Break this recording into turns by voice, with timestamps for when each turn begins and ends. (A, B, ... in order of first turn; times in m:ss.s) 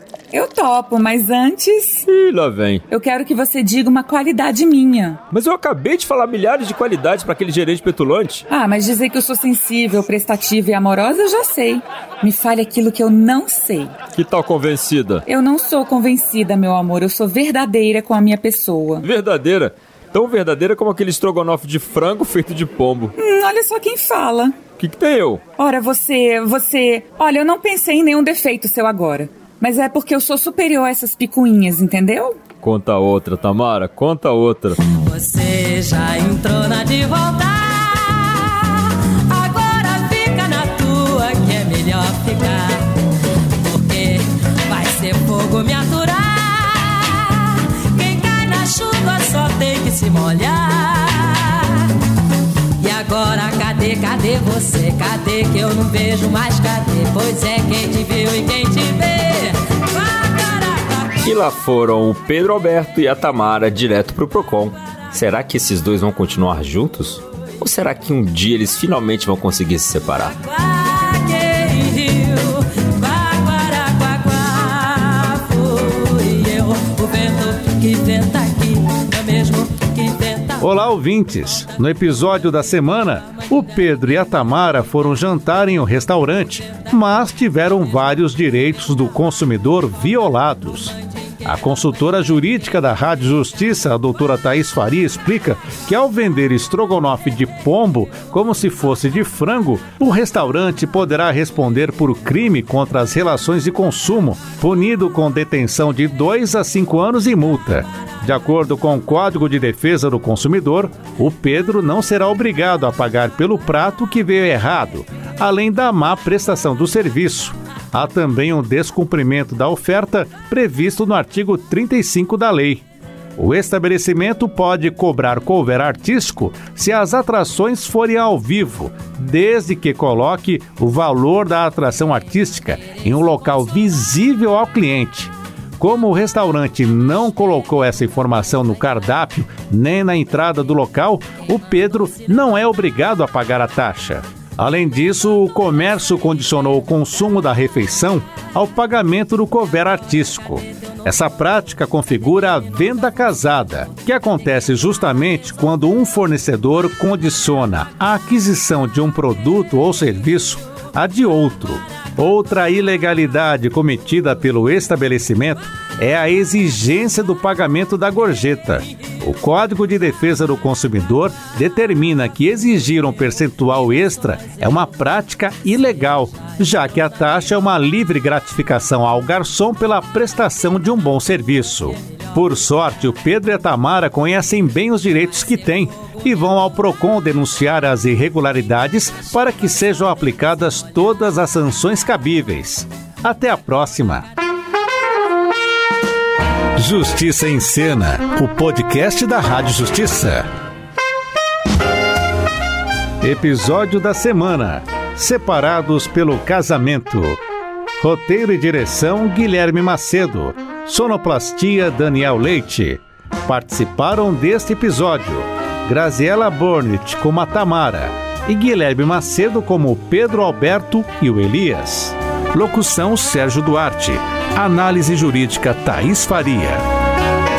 0:00.3-0:02.1 A
0:02.1-0:02.8 B
0:02.9-0:05.2 A
0:05.3-0:08.4 B
0:08.5-0:14.0 A
0:14.1-0:15.2 B
0:15.2-0:19.1 A
0:19.0-0:23.1 B
0:23.2-0:24.6 A
0:24.8-0:25.4 B
0:25.6-0:32.4 A
0:32.6-0:34.8 B
0:34.8-0:43.0 C
0:43.6-0:52.0 C
0:52.8-1:01.1 C
1:01.5-1:02.8 B
1:02.6-1:10.4 D
1:04.1-1:04.7 B
1:10.5-1:20.6 C
1:20.6-2:02.8 E
2:03.4-3:14.2 E
3:16.8-3:20.5 E
3:23.2-3:27.4 E
3:28.0-3:46.8 E